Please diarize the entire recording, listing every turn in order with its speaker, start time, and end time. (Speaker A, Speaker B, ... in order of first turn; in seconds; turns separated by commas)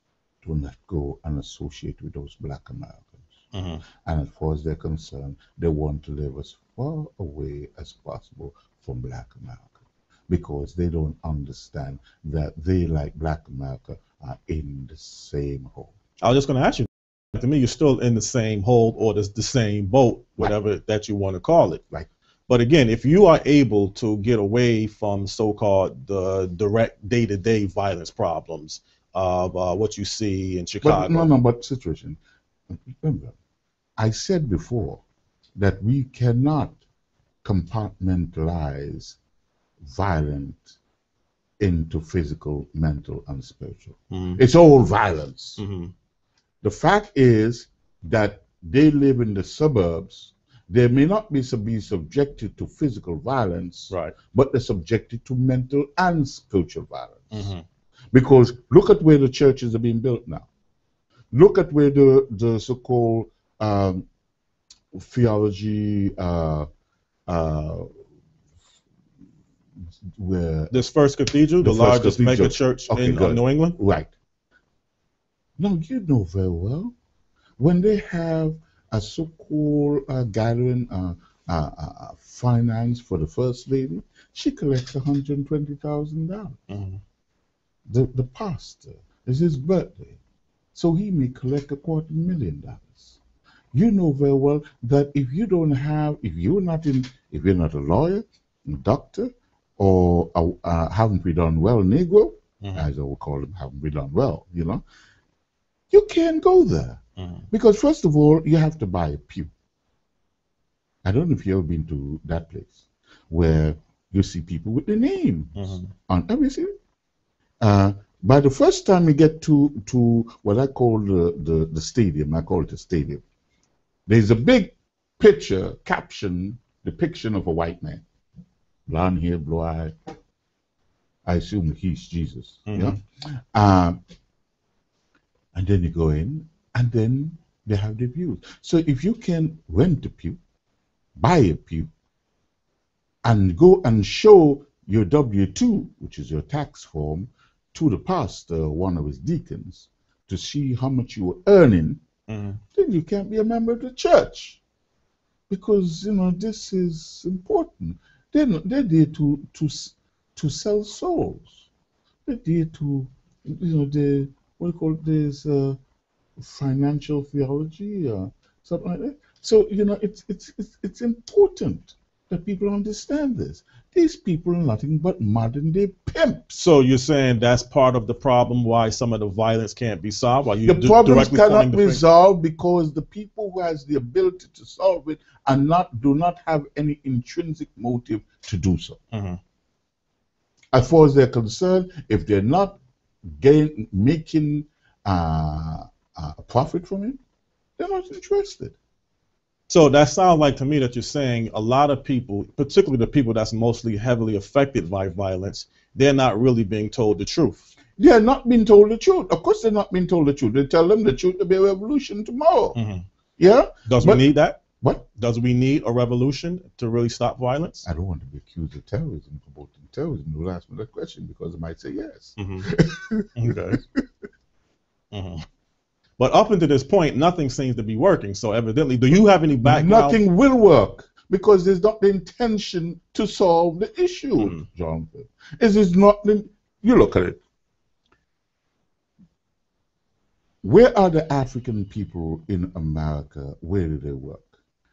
Speaker A: 0.4-3.2, Speaker B: 3.5-3.8, Speaker A: 4.0-15.9, Speaker B: 16.2-21.8, Speaker B: 22.5-31.3, Speaker A: 30.8-32.2, Speaker A: 32.7-33.4, Speaker A: 34.0-35.0, Speaker A: 35.6-36.8, Speaker A: 37.4-39.2, Speaker A: 39.8-40.8, Speaker A: 41.6-45.6, Speaker B: 44.1-44.4, Speaker B: 45.6-45.9, Speaker A: 46.6-57.5, Speaker B: 53.9-54.2, Speaker B: 57.3-57.6, Speaker A: 58.1-60.5, Speaker A: 61.3-64.1, Speaker A: 64.9-66.7, Speaker A: 67.3-67.9, Speaker A: 70.2-70.7, Speaker B: 70.7-73.8, Speaker A: 71.6-74.1, Speaker A: 75.6-76.9, Speaker A: 77.6-86.6, Speaker B: 86.7-87.0, Speaker A: 87.9-90.2, Speaker A: 90.8-93.2, Speaker A: 93.7-104.8, Speaker B: 102.6-102.9, Speaker A: 105.9-107.0, Speaker B: 107.2-107.5, Speaker A: 107.5-109.5, Speaker A: 111.0-116.7, Speaker B: 115.6-115.9, Speaker A: 117.6-123.2, Speaker A: 124.1-128.0, Speaker A: 128.9-129.9, Speaker A: 131.2-134.0, Speaker B: 132.7-133.0, Speaker A: 135.5-140.4, Speaker A: 141.2-141.9, Speaker A: 143.2-152.0, Speaker B: 152.3-152.6, Speaker A: 152.8-154.6, Speaker A: 155.5-161.7, Speaker A: 162.3-165.8, Speaker A: 166.4-176.6, Speaker B: 176.6-182.0, Speaker A: 180.6-189.0, Speaker B: 189.1-189.4, Speaker A: 190.7-197.2, Speaker A: 197.8-198.8, Speaker B: 199.7-207.7, Speaker A: 208.0-212.8, Speaker B: 212.7-213.1, Speaker A: 213.4-214.2, Speaker B: 213.9-217.9, Speaker A: 214.8-215.1, Speaker A: 217.8-224.0, Speaker B: 222.4-222.7, Speaker B: 223.3-223.8, Speaker B: 225.1-225.4, Speaker B: 226.2-230.2, Speaker A: 229.6-237.4, Speaker B: 234.4-234.7, Speaker A: 240.6-244.6